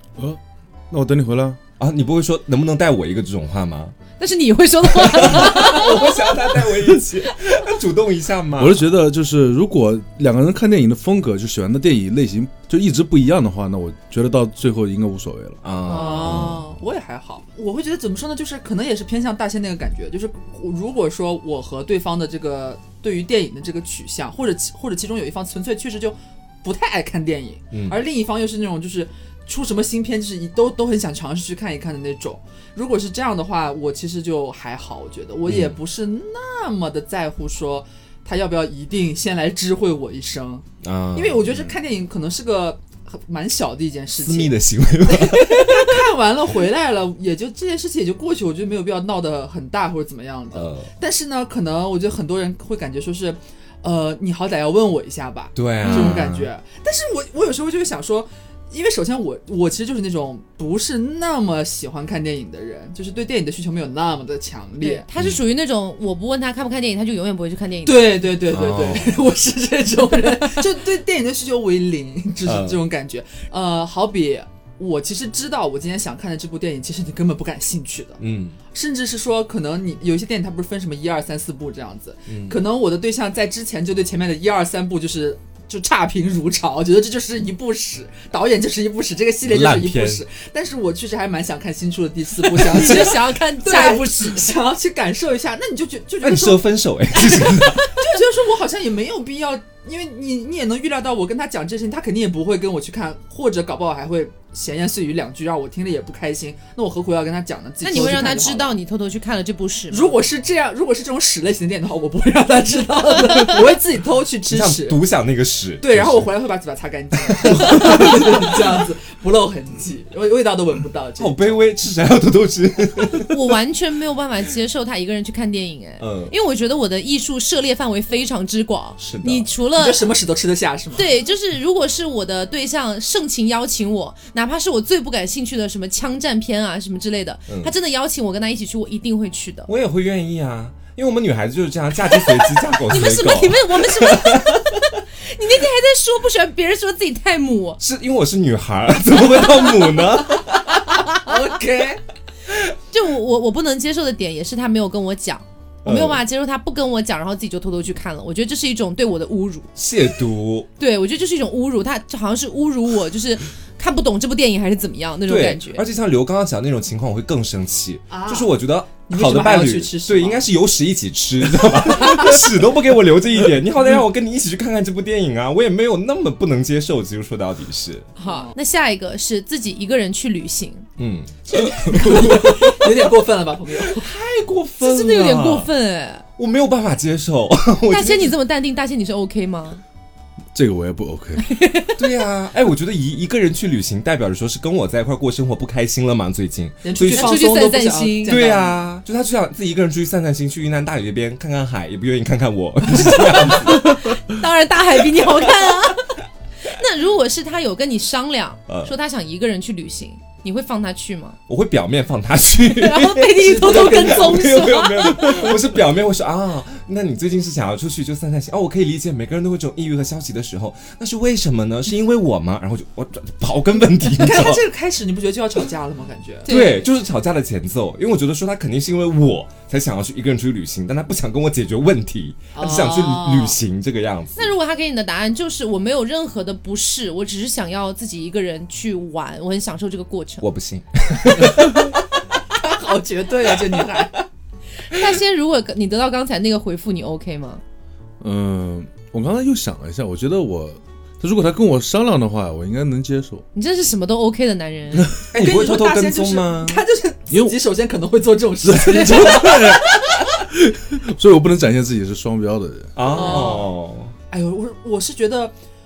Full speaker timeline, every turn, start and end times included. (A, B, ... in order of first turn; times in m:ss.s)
0:00.2-0:01.6 A
0:01.8-0:04.0 B
0:04.2-0:06.3 C
0:04.9-0:08.9 B
0:08.6-0:15.6 A
0:15.6-0:16.6 B
0:15.9-1:05.0 D
0:27.7-0:28.0 B
0:35.5-0:35.8 B
0:40.8-0:41.7 B
0:44.2-0:46.1 B
0:50.5-0:50.9 B
0:55.6-0:56.5 B
0:55.8-0:56.2 C
1:04.8-1:08.2 C
1:05.2-1:05.4 B
1:07.8-1:18.2 D
1:08.5-1:09.2 B
1:12.4-1:12.8 B
1:18.2-1:18.6 B
1:18.7-1:36.6 D
1:22.3-1:22.6 B
1:29.4-1:30.2 B
1:32.6-1:34.4 C
1:36.2-1:37.8 B
1:37.3-1:48.8 D
1:37.6-1:37.9 C
1:47.8-1:50.2 C
1:49.9-1:55.0 D
1:54.5-1:56.3 B
1:55.8-2:01.7 D
1:57.3-1:58.4 B
2:01.2-2:03.3 B
2:03.3-2:10.1 C
2:06.0-2:06.3 B
2:09.0-2:09.5 B
2:09.8-2:11.1 D
2:11.0-2:19.7 C
2:17.5-2:17.7 B
2:19.7-2:24.6 B
2:22.8-2:27.8 C
2:27.8-2:30.8 B
2:30.9-2:31.3 C
2:31.2-2:32.0 D
2:32.9-2:39.7 C
2:35.8-2:36.2 B
2:39.8-2:40.7 B
2:40.8-2:45.8 C
2:45.3-2:58.1 B
2:48.1-2:50.5 D
2:52.0-2:52.4 D
2:58.2-3:00.9 C
2:58.2-2:58.6 D
3:01.0-3:03.0 B
3:01.6-3:04.1 D
3:03.8-3:05.7 B
3:04.8-3:06.2 C
3:06.4-3:08.4 B
3:07.9-3:09.8 C
3:10.5-3:11.5 A
3:11.4-3:12.0 C
3:12.0-3:17.5 B
3:16.8-3:18.8 D
3:17.1-3:18.4 C
3:18.3-3:24.2 B
3:23.0-3:26.1 C
3:26.6-3:31.4 C
3:28.7-3:28.9 B
3:31.5-3:44.6 B
3:32.7-3:35.5 C
3:33.4-3:34.5 D
3:44.1-3:46.8 D
3:46.5-3:54.5 B
3:46.5-3:46.8 C
3:52.6-3:53.6 D
3:54.4-4:00.5 C
4:00.4-4:02.0 B
4:02.6-4:04.3 D
4:04.9-4:07.6 C
4:08.2-4:13.4 A
4:13.5-4:15.1 C
4:15.3-4:16.8 B
4:15.3-4:20.2 D
4:18.6-4:22.9 A
4:23.0-4:24.1 B
4:23.0-4:23.7 D
4:24.3-4:25.5 D